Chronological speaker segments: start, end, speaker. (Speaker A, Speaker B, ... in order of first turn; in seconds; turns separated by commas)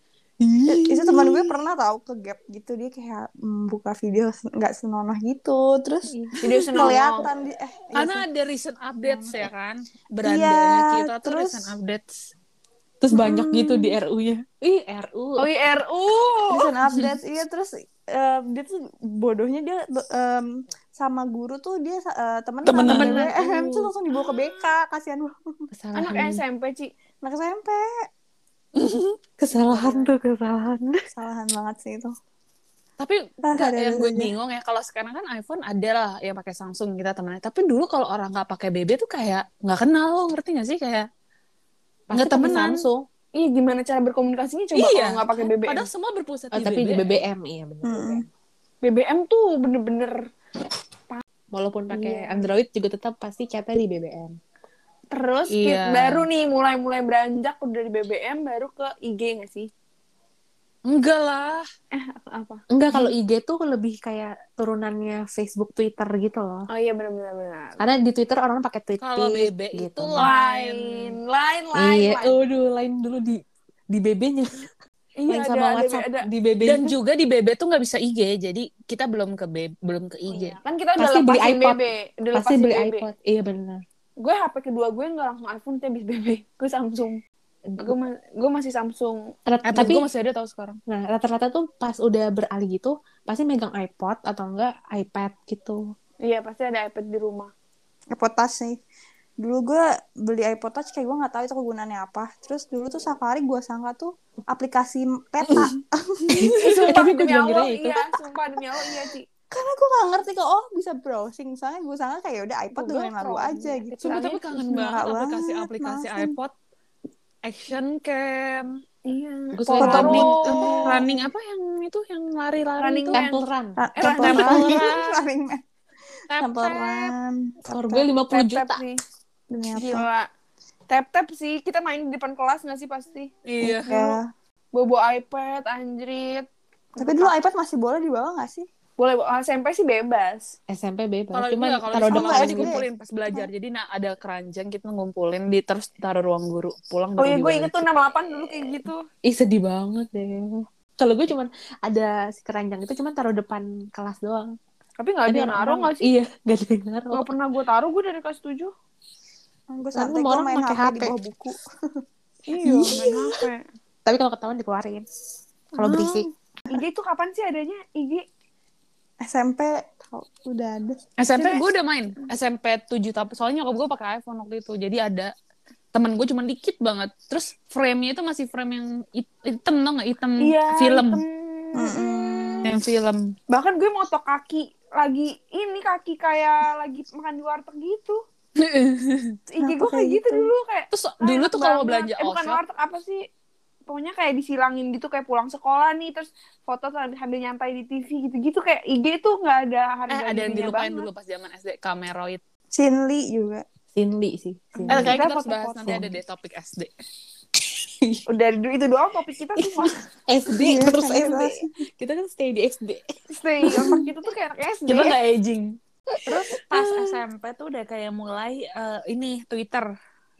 Speaker A: 0.5-1.5, Speaker B: 0.7-6.1, Speaker A: 6.1-7.0, Speaker C: 6.4-7.3, Speaker B: 6.7-8.3, Speaker D: 8.0-12.3, Speaker B: 9.0-9.5, Speaker B: 10.2-11.7, Speaker A: 13.0-15.5, Speaker B: 13.1-13.9, Speaker C: 15.4-16.8, Speaker B: 16.5-25.7, Speaker D: 22.6-23.2, Speaker C: 22.8-23.2, Speaker A: 22.9-23.9, Speaker A: 25.7-26.4, Speaker C: 25.9-26.9, Speaker B: 27.2-28.1, Speaker A: 29.4-31.1, Speaker C: 29.6-30.1, Speaker B: 31.1-32.1, Speaker D: 33.0-41.1, Speaker B: 33.5-34.3, Speaker A: 42.1-43.1, Speaker D: 42.1-42.9, Speaker C: 43.4-45.9, Speaker D: 44.7-47.1, Speaker A: 46.5-48.2, Speaker B: 47.8-48.2, Speaker C: 48.8-50.3, Speaker A: 51.5-54.4, Speaker C: 51.9-52.5, Speaker C: 55.1-59.7, Speaker D: 55.5-56.3, Speaker D: 60.9-61.7, Speaker C: 61.9-62.6, Speaker A: 62.7-66.7, Speaker C: 66.7-67.8, Speaker A: 67.8-70.3, Speaker D: 69.0-71.2, Speaker C: 70.2-72.4, Speaker A: 71.8-74.7, Speaker C: 75.2-76.3, Speaker A: 75.3-77.0, Speaker D: 76.6-80.6, Speaker C: 80.3-83.1, Speaker A: 81.0-81.8, Speaker A: 82.3-83.8, Speaker C: 84.2-87.2, Speaker A: 87.7-88.0, Speaker C: 87.8-89.3, Speaker A: 89.5-90.1, Speaker D: 89.7-90.8, Speaker A: 90.9-95.9, Speaker C: 96.2-97.5, Speaker B: 98.1-98.8, Speaker B: 99.4-106.4, Speaker D: 105.5-105.7, Speaker A: 106.3-108.0, Speaker D: 106.4-106.8, Speaker C: 106.6-109.2, Speaker B: 109.5-116.3, Speaker C: 112.7-114.5, Speaker D: 114.0-116.5, Speaker D: 117.5-118.8, Speaker C: 119.1-121.0, Speaker A: 119.5-120.6, Speaker D: 119.8-123.3, Speaker B: 119.8-121.1, Speaker C: 122.8-123.4, Speaker A: 123.1-124.7, Speaker B: 123.8-125.6, Speaker C: 124.0-124.9, Speaker D: 124.2-125.3, Speaker D: 126.3-127.1, Speaker B: 126.3-128.1, Speaker A: 127.7-128.8, Speaker C: 128.3-129.0, Speaker B: 129.5-130.1, Speaker C: 129.8-130.3, Speaker C: 130.9-133.3, Speaker D: 133.4-134.2, Speaker B: 133.6-134.3, Speaker C: 134.7-137.3, Speaker B: 137.0-138.7, Speaker C: 139.0-140.6, Speaker A: 140.7-142.8, Speaker D: 141.3-147.8, Speaker B: 142.1-143.5, Speaker C: 147.2-149.0, Speaker A: 149.2-154.6, Speaker C: 155.0-156.1, Speaker A: 155.3-157.3, Speaker C: 157.1-158.7, Speaker B: 159.7-161.6, Speaker A: 159.9-161.2, Speaker C: 162.5-163.6, Speaker A: 162.7-163.2, Speaker A: 164.1-165.1, Speaker A: 165.8-166.3, Speaker B: 165.8-166.8, Speaker C: 166.7-168.2, Speaker B: 169.2-171.0, Speaker D: 171.2-175.3, Speaker C: 171.4-171.6, Speaker D: 175.9-181.2, Speaker C: 180.4-182.7, Speaker B: 181.8-182.7, Speaker D: 182.7-183.3, Speaker C: 183.5-188.2, Speaker D: 188.6-189.4, Speaker C: 189.5-193.2, Speaker B: 189.6-190.5, Speaker D: 190.9-192.6, Speaker C: 193.9-201.1, Speaker D: 200.1-202.4, Speaker B: 202.7-203.7, Speaker A: 203.9-205.2, Speaker C: 204.8-205.9, Speaker D: 204.9-206.9, Speaker A: 205.9-206.2, Speaker A: 208.0-208.2, Speaker C: 208.3-210.0, Speaker A: 209.6-213.0, Speaker B: 210.5-211.7, Speaker C: 213.3-215.2, Speaker A: 213.6-214.1, Speaker D: 214.9-219.9, Speaker A: 216.7-217.1